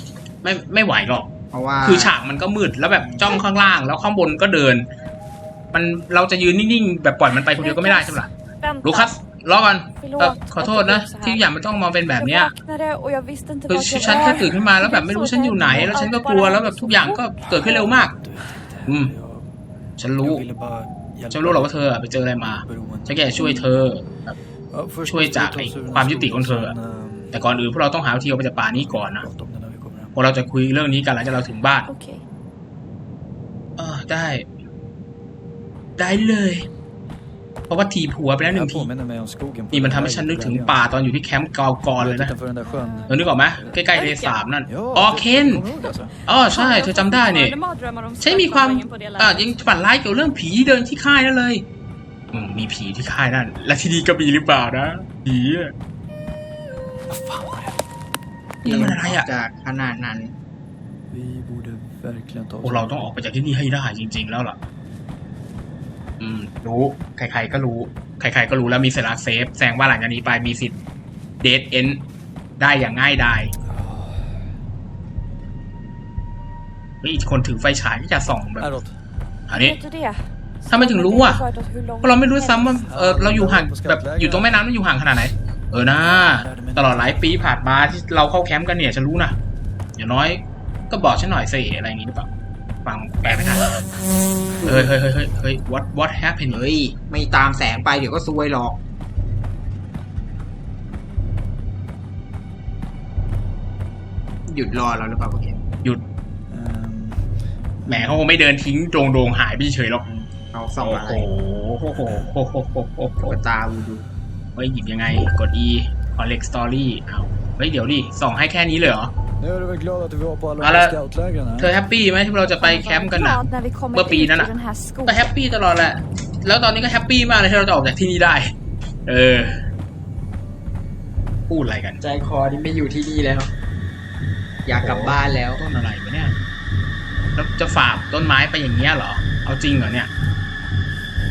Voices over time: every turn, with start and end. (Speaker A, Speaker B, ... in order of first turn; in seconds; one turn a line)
Speaker A: 0.4-1.3
Speaker B: 1.5-2.1
Speaker A: 1.8-4.9
Speaker B: 3.0-3.5
Speaker A: 5.7-8.3
Speaker C: 7.5-9.1
Speaker A: 8.8-12.5
Speaker C: 10.0-11.5
Speaker C: 12.2-17.8
Speaker A: 13.7-18.2
Speaker D: 14.0-14.6
Speaker D: 15.7-16.0
Speaker D: 17.4-19.6
Speaker A: 18.9-19.1
Speaker A: 20.0-20.5
Speaker D: 20.2-21.8
Speaker A: 21.3-24.4
Speaker D: 22.6-23.5
Speaker C: 23.4-23.7
Speaker D: 24.7-27.4
Speaker A: 25.1-26.8
Speaker A: 27.3-29.3
Speaker D: 28.8-30.3
Speaker A: 30.1-31.9
Speaker C: 31.9-32.2
Speaker A: 33.8-34.5
Speaker A: 36.0-36.7
Speaker A: 37.7-38.9
Speaker D: 38.5-40.8
Speaker A: 39.7-42.3
Speaker D: 42.0-43.7
Speaker C: 42.6-43.2
Speaker A: 43.1-45.7
Speaker C: 43.7-44.4
Speaker D: 44.7-46.2
Speaker A: 46.2-47.6
Speaker C: 46.4-49.6
Speaker A: 48.2-51.6
Speaker A: 52.3-55.7
Speaker D: 57.1-57.8
Speaker A: 58.6-59.3
Speaker B: 58.6-60.4
Speaker D: 61.1-63.1
Speaker A: 62.6-64.6
Speaker A: 66.2-70.8
Speaker A: 71.4-72.0
Speaker A: 72.6-73.5
Speaker D: 73.7-74.5
Speaker A: 77.0-78.7
Speaker D: 78.6-79.0
Speaker A: 79.5-79.8
Speaker C: 79.6-82.8
Speaker A: 80.7-81.4
Speaker A: 82.0-89.4
Speaker D: 82.6-84.7
Speaker D: 86.0-87.5
Speaker A: 90.0-92.3
Speaker A: 92.8-93.8
Speaker B: 94.6-94.9
Speaker A: 94.6-96.6
Speaker B: 96.5-98.8
Speaker B: 104.5-105.6
Speaker D: 106.5-108.2
Speaker A: 107.8-110.1
Speaker B: 110.3-111.3
Speaker A: 110.8-113.4
Speaker B: 113.2-114.0
Speaker A: 114.6-119.1
Speaker D: 119.4-121.7
Speaker A: 120.6-121.0
Speaker A: 121.6-124.5
Speaker C: 122.5-125.3
Speaker A: 125.1-128.5
Speaker A: 129.1-129.7
Speaker A: 131.5-132.0
Speaker B: 132.0-133.5
Speaker B: 134.7-135.6
Speaker A: 134.8-136.4
Speaker A: 137.3-140.1